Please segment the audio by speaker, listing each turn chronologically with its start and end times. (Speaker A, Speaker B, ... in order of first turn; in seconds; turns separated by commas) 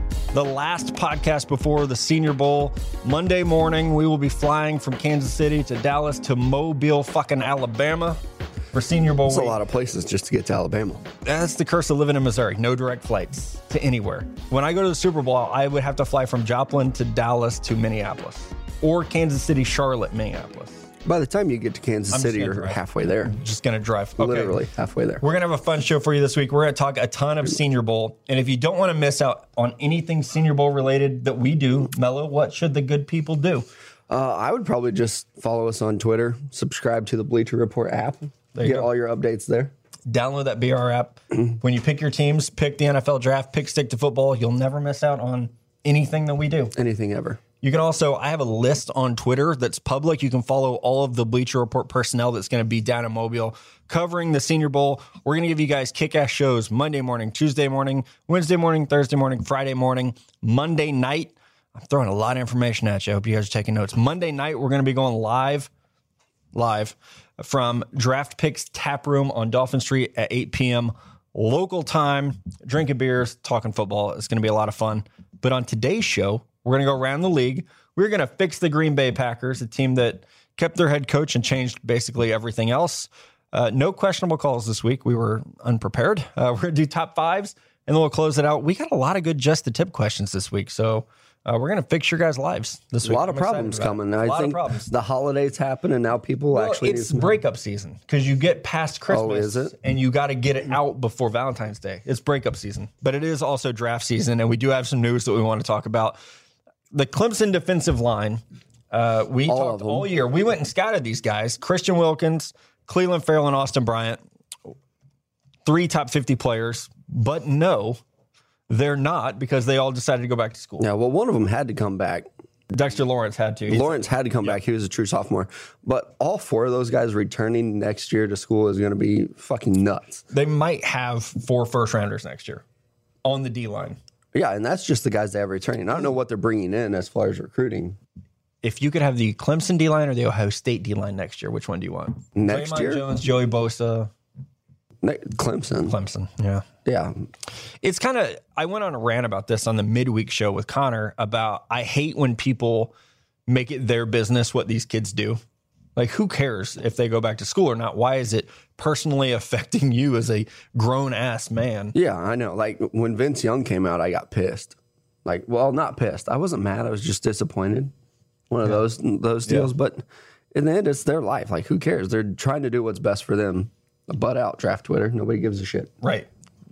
Speaker A: 0.3-8.2, Speaker A: 8.7-9.6, Speaker B: 9.3-11.0, Speaker A: 11.2-20.9, Speaker B: 21.0-23.3, Speaker A: 22.1-24.5, Speaker B: 24.2-25.2, Speaker A: 25.2-33.7, Speaker B: 34.1-39.7, Speaker A: 38.5-38.9, Speaker A: 40.1-46.7, Speaker B: 46.8-47.4, Speaker A: 47.6-65.7, Speaker A: 66.5-94.9, Speaker B: 93.0-97.3, Speaker A: 96.5-106.2, Speaker B: 99.1-99.7, Speaker A: 106.9-114.2, Speaker B: 109.5-110.1, Speaker A: 115.7-118.0, Speaker A: 118.7-120.9, Speaker B: 120.8-122.3, Speaker A: 122.7-124.6, Speaker B: 123.7-130.2, Speaker A: 130.3-132.6, Speaker A: 133.2-134.0, Speaker B: 134.3-138.0, Speaker A: 138.6-144.1, Speaker B: 142.3-143.0, Speaker B: 145.0-145.9, Speaker A: 145.9-146.6, Speaker B: 146.8-147.1, Speaker A: 147.8-152.9, Speaker A: 153.5-155.4, Speaker A: 155.9-161.9, Speaker B: 161.9-167.9, Speaker B: 168.5-175.9, Speaker A: 176.0-176.3